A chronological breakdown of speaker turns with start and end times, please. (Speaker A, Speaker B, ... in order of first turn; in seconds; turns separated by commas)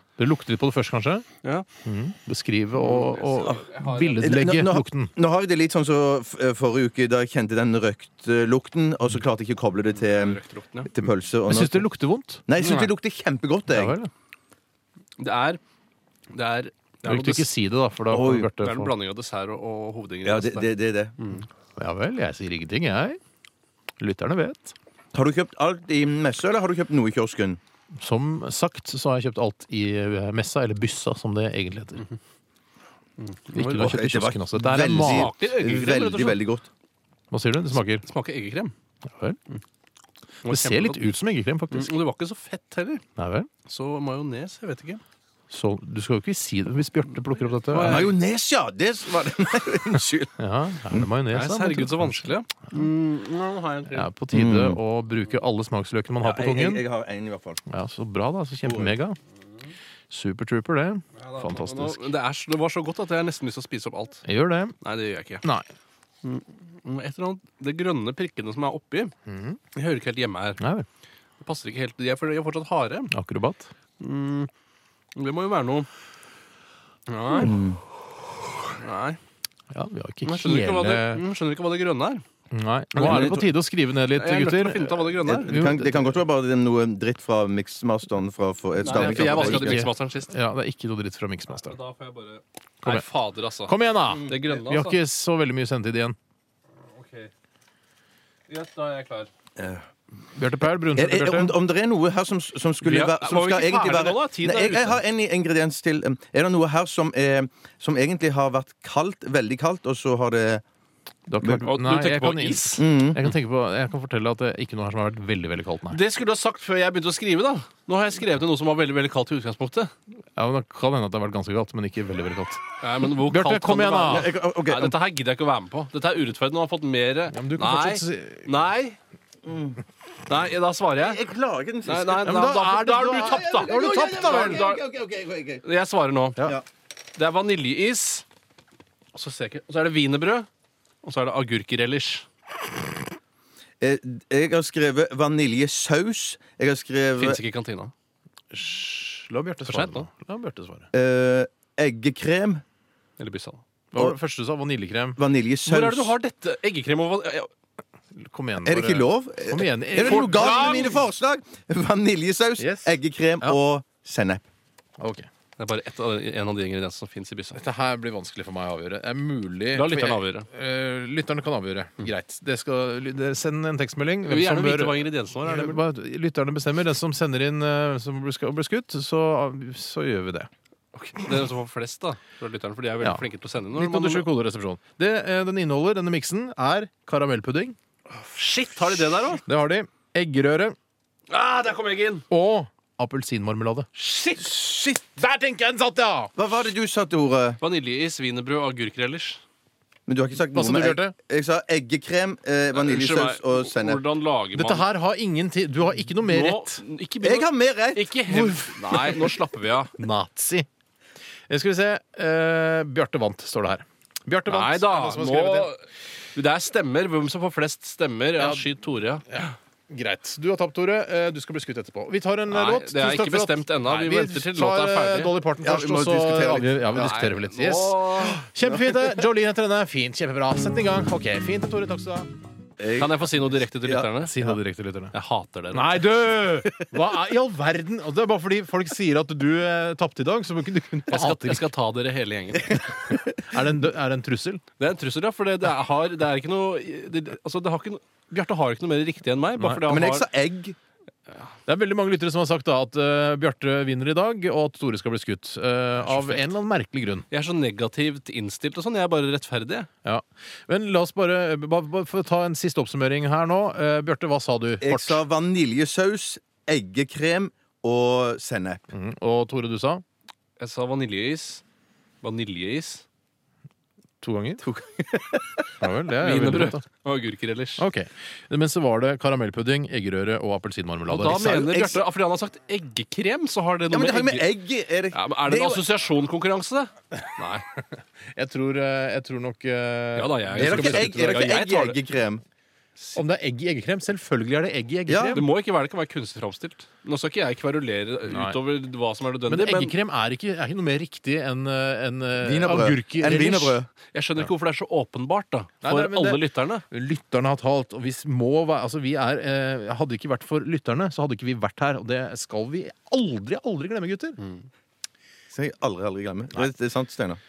Speaker A: 0.2-1.2, Speaker A: 1.9-5.1, Speaker B: 2.8-4.4, Speaker C: 4.2-11.8, Speaker B: 10.0-10.9, Speaker A: 11.5-12.5, Speaker C: 12.5-14.0, Speaker B: 12.6-12.9, Speaker A: 13.7-14.1, Speaker B: 15.2-15.6, Speaker B: 16.3-17.5, Speaker A: 17.1-18.9, Speaker C: 18.1-18.5, Speaker B: 18.6-21.5, Speaker C: 20.2-21.1, Speaker A: 21.8-23.2, Speaker A: 24.0-24.8, Speaker C: 25.1-27.6, Speaker A: 28.0-32.0, Speaker B: 33.2-34.0, Speaker A: 33.5-35.4, Speaker C: 33.8-36.6, Speaker B: 35.0-36.4, Speaker A: 37.3-38.0, Speaker B: 37.7-38.7, Speaker A: 39.1-39.4, Speaker B: 40.5-41.1, Speaker A: 40.5-41.9, Speaker B: 41.7-43.0, Speaker A: 43.2-43.5, Speaker B: 43.6-45.0, Speaker A: 45.5-48.1, Speaker B: 47.7-48.1, Speaker C: 47.8-50.4, Speaker A: 50.4-52.3, Speaker B: 51.3-54.1, Speaker A: 53.9-56.8, Speaker C: 54.3-54.8, Speaker C: 56.2-57.6, Speaker A: 57.7-59.2, Speaker C: 58.7-58.9, Speaker A: 60.1-62.1, Speaker B: 61.2-64.2, Speaker A: 64.2-64.8, Speaker B: 64.8-65.4, Speaker B: 66.2-69.1, Speaker A: 69.3-69.6, Speaker B: 69.7-70.6, Speaker A: 70.6-70.9, Speaker B: 71.4-73.1, Speaker A: 73.1-73.7, Speaker B: 74.0-74.5, Speaker B: 75.2-75.9, Speaker B: 77.1-77.5, Speaker C: 77.3-77.8, Speaker B: 78.8-79.2, Speaker A: 79.7-81.2, Speaker B: 80.2-82.2, Speaker A: 82.5-86.2, Speaker C: 83.0-83.5, Speaker B: 83.0-83.4, Speaker B: 84.1-85.6, Speaker C: 85.2-89.9, Speaker B: 88.8-90.3, Speaker A: 88.8-91.8, Speaker B: 91.5-95.0, Speaker A: 93.7-96.2, Speaker B: 96.9-97.3, Speaker B: 98.5-99.3, Speaker C: 99.6-99.9, Speaker A: 100.3-101.6, Speaker C: 101.0-110.6, Speaker B: 102.8-105.0, Speaker A: 111.3-116.0, Speaker B: 111.6-112.8, Speaker C: 112.8-113.2, Speaker B: 115.9-119.9, Speaker A: 120.4-122.6, Speaker B: 122.8-129.0, Speaker A: 123.3-124.3, Speaker C: 124.1-125.0, Speaker A: 127.3-128.5, Speaker C: 129.4-129.8, Speaker B: 130.3-131.2, Speaker C: 131.0-132.4, Speaker B: 131.9-134.8, Speaker A: 132.2-134.7, Speaker C: 133.2-135.6, Speaker B: 135.6-136.4, Speaker B: 137.2-138.2, Speaker B: 139.1-140.5, Speaker B: 141.0-142.2, Speaker C: 143.8-147.4, Speaker B: 147.2-147.9, Speaker A: 148.5-150.9, Speaker B: 149.6-150.1, Speaker C: 150.9-152.6, Speaker B: 153.2-153.6, Speaker A: 153.9-155.2, Speaker C: 155.2-156.1, Speaker B: 155.7-157.5, Speaker A: 158.1-161.0, Speaker C: 158.6-164.5, Speaker B: 160.0-161.0, Speaker A: 162.6-163.6, Speaker A: 165.0-165.3, Speaker B: 165.6-167.6, Speaker A: 167.6-180.5, Speaker B: 169.7-170.5, Speaker B: 174.2-175.8, Speaker B: 180.9-184.3, Speaker A: 183.0-187.8, Speaker B: 188.1-189.4, Speaker A: 189.5-190.8, Speaker B: 191.3-192.3, Speaker A: 192.3-196.4, Speaker B: 194.0-194.6, Speaker C: 196.4-197.6, Speaker B: 197.6-199.4, Speaker C: 200.1-204.0, Speaker A: 200.4-201.1, Speaker B: 202.7-204.9, Speaker A: 204.5-206.8, Speaker B: 206.2-209.9, Speaker C: 207.2-209.1, Speaker A: 208.3-209.3, Speaker A: 210.0-210.7, Speaker A: 211.5-215.7, Speaker B: 214.5-219.2, Speaker A: 218.4-218.7, Speaker A: 219.3-232.3, Speaker B: 222.5-225.3, Speaker C: 225.6-226.8, Speaker B: 226.9-228.4, Speaker C: 232.8-233.1, Speaker B: 232.9-234.6, Speaker A: 234.2-235.1, Speaker B: 235.1-236.1, Speaker A: 235.7-241.7, Speaker B: 241.1-242.9, Speaker A: 243.1-244.6, Speaker B: 244.8-250.3, Speaker A: 249.6-249.9, Speaker C: 249.9-250.8, Speaker A: 251.7-257.3, Speaker B: 256.0-256.4, Speaker B: 257.3-259.9, Speaker A: 260.1-265.2, Speaker C: 264.8-268.8, Speaker A: 268.9-270.0, Speaker B: 270.6-271.6, Speaker B: 272.2-273.0, Speaker A: 274.2-274.6, Speaker C: 274.6-275.6, Speaker A: 275.8-276.8, Speaker B: 276.2-277.9, Speaker A: 277.8-281.9, Speaker B: 281.1-284.5, Speaker C: 283.9-285.9, Speaker B: 285.1-287.6, Speaker A: 288.3-291.6, Speaker B: 290.2-292.0, Speaker C: 290.6-292.4, Speaker A: 293.1-295.5, Speaker C: 295.1-295.4, Speaker B: 295.3-300.0, Speaker A: 298.2-298.6, Speaker A: 299.5-303.8, Speaker C: 302.4-303.9, Speaker B: 304.1-306.9, Speaker A: 305.8-314.4, Speaker C: 315.5-317.4